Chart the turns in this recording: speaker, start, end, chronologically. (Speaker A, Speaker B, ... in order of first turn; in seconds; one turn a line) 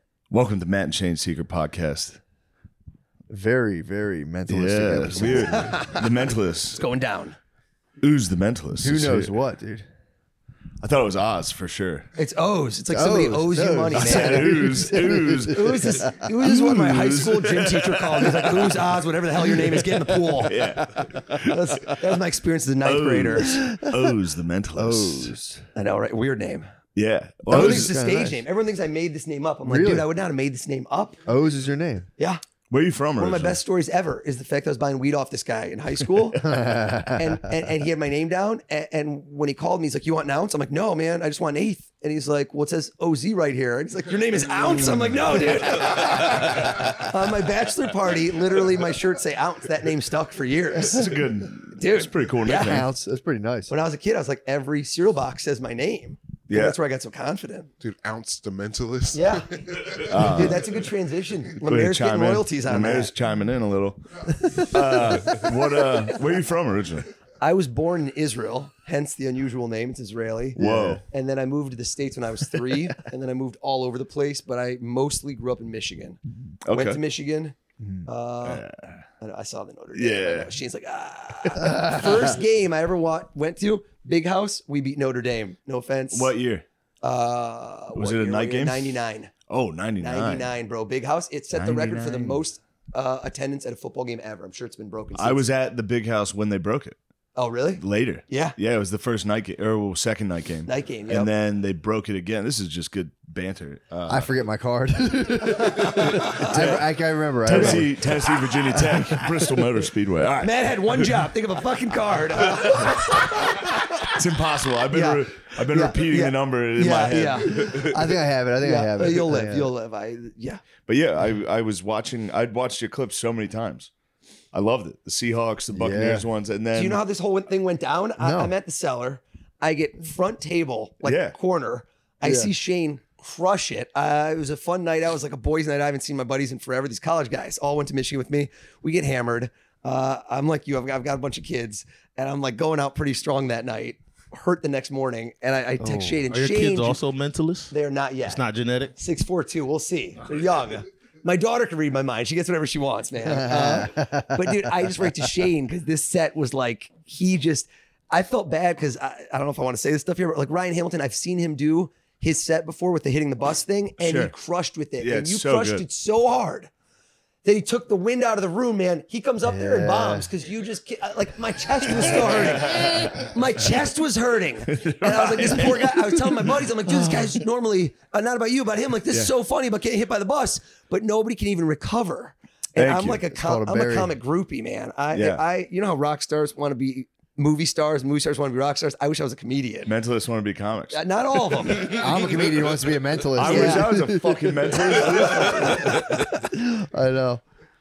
Speaker A: 0.3-2.2
Speaker B: 3.3-6.0
Speaker A: 4.5-6.8
Speaker C: 6.8-7.4
Speaker A: 8.0-9.3
Speaker B: 8.8-9.9
Speaker A: 10.8-12.1
Speaker C: 12.2-14.9
Speaker B: 12.9-16.3
Speaker A: 13.9-19.0
Speaker C: 15.4-20.7
Speaker A: 20.3-22.0
Speaker C: 21.4-23.6
Speaker A: 22.8-25.4
Speaker B: 23.4-24.1
Speaker B: 24.8-25.7
Speaker C: 25.8-26.7
Speaker A: 26.9-28.0
Speaker C: 27.5-31.2
Speaker B: 27.5-28.4
Speaker B: 29.7-30.1
Speaker B: 31.3-32.1
Speaker A: 32.7-33.6
Speaker C: 33.2-51.1
Speaker B: 36.4-37.6
Speaker A: 50.8-52.9
Speaker C: 51.7-52.8
Speaker B: 52.5-53.7
Speaker C: 53.7-57.7
Speaker A: 56.5-56.8
Speaker D: 57.8-60.1
Speaker C: 59.1-63.1
Speaker A: 60.1-60.8
Speaker A: 61.7-67.1
Speaker C: 64.5-65.3
Speaker C: 67.4-78.7
Speaker B: 70.6-71.0
Speaker A: 70.6-71.0
Speaker A: 76.7-77.0
Speaker A: 78.4-79.0
Speaker C: 79.2-86.3
Speaker A: 80.0-80.5
Speaker A: 86.1-86.7
Speaker C: 87.0-89.3
Speaker A: 88.0-90.5
Speaker C: 90.0-95.5
Speaker A: 91.5-92.4
Speaker A: 95.2-97.0
Speaker C: 97.4-98.6
Speaker A: 97.8-104.3
Speaker C: 100.7-101.3
Speaker B: 104.1-108.1
Speaker C: 105.9-106.8
Speaker A: 106.1-106.8
Speaker A: 107.4-110.5
Speaker B: 108.8-109.4
Speaker C: 110.4-113.8
Speaker A: 113.9-118.1
Speaker C: 114.9-118.0
Speaker B: 117.6-119.7
Speaker C: 118.6-120.6
Speaker A: 120.9-123.9
Speaker A: 124.5-127.0
Speaker B: 125.7-126.3
Speaker C: 126.8-147.0
Speaker B: 128.2-128.5
Speaker A: 131.0-131.4
Speaker B: 132.2-132.5
Speaker B: 145.8-146.2
Speaker E: 146.3-148.9
Speaker C: 147.7-148.4
Speaker C: 148.9-166.7
Speaker B: 153.2-155.2
Speaker A: 164.0-164.3
Speaker A: 165.0-165.8
Speaker C: 167.4-189.9
Speaker B: 169.4-170.3
Speaker A: 172.3-173.1
Speaker A: 174.7-176.7
Speaker A: 182.8-183.2
Speaker B: 183.2-184.1
Speaker A: 185.1-185.4
Speaker A: 189.9-191.0
Speaker C: 190.9-192.6
Speaker B: 191.8-197.4
Speaker A: 193.3-196.0
Speaker C: 193.4-193.9
Speaker C: 195.2-196.1